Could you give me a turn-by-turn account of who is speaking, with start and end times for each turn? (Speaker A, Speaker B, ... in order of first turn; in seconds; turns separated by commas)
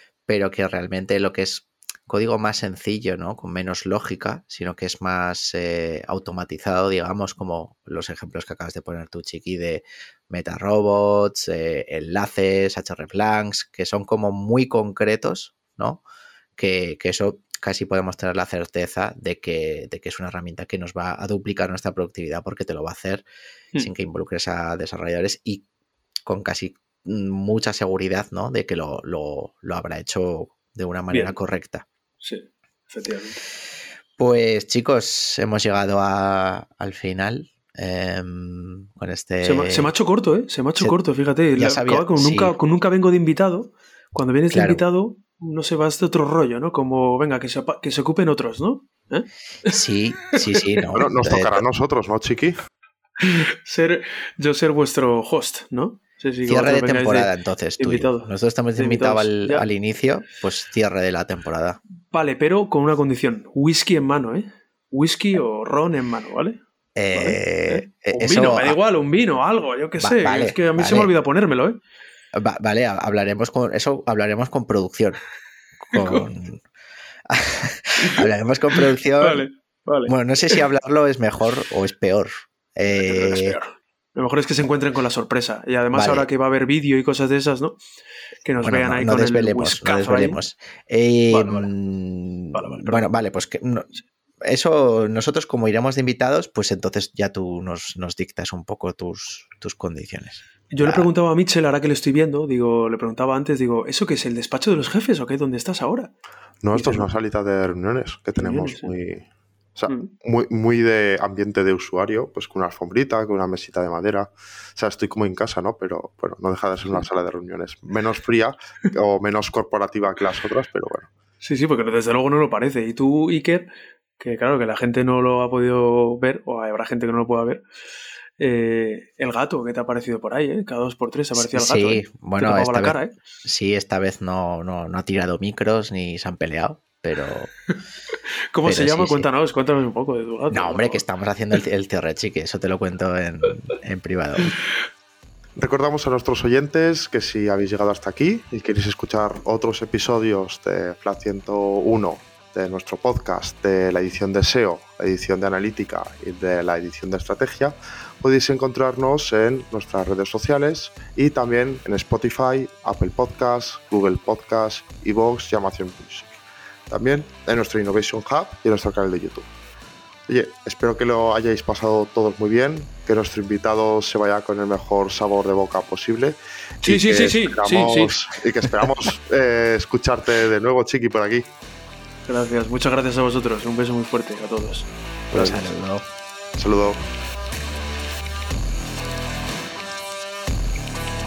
Speaker A: 0.3-16.0, Speaker A: 16.6-23.2, Speaker A: 23.8-25.6, Speaker A: 26.3-31.9, Speaker B: 31.1-31.4, Speaker B: 32.2-33.4, Speaker A: 34.2-39.9, Speaker B: 39.4-49.8, Speaker A: 41.6-42.5, Speaker A: 44.5-44.8, Speaker A: 49.7-51.6, Speaker B: 50.4-50.9, Speaker C: 50.9-52.6, Speaker B: 53.2-59.7, Speaker A: 56.5-61.8, Speaker B: 62.1-66.6, Speaker A: 67.0-68.8, Speaker B: 67.1-71.8, Speaker A: 70.0-71.1, Speaker A: 72.3-75.2, Speaker A: 75.8-76.6, Speaker B: 76.0-76.2, Speaker A: 77.3-79.5, Speaker B: 78.0-80.6, Speaker A: 80.1-83.6, Speaker B: 82.9-87.8, Speaker A: 85.9-86.3, Speaker B: 88.4-90.4, Speaker A: 88.6-93.9, Speaker B: 91.3-91.7, Speaker B: 92.5-93.1, Speaker A: 94.4-101.1, Speaker B: 100.7-106.1, Speaker C: 106.6-121.1, Speaker B: 106.7-107.1, Speaker B: 108.4-108.9, Speaker B: 121.4-123.7, Speaker B: 124.2-127.6, Speaker B: 128.4-133.2, Speaker A: 131.3-137.5, Speaker B: 138.5-141.0, Speaker A: 138.7-139.3, Speaker A: 140.5-144.6, Speaker C: 145.6-169.5, Speaker C: 170.3-181.4, Speaker B: 176.8-178.1, Speaker B: 182.3-185.7, Speaker A: 185.3-186.0, Speaker C: 186.6-187.0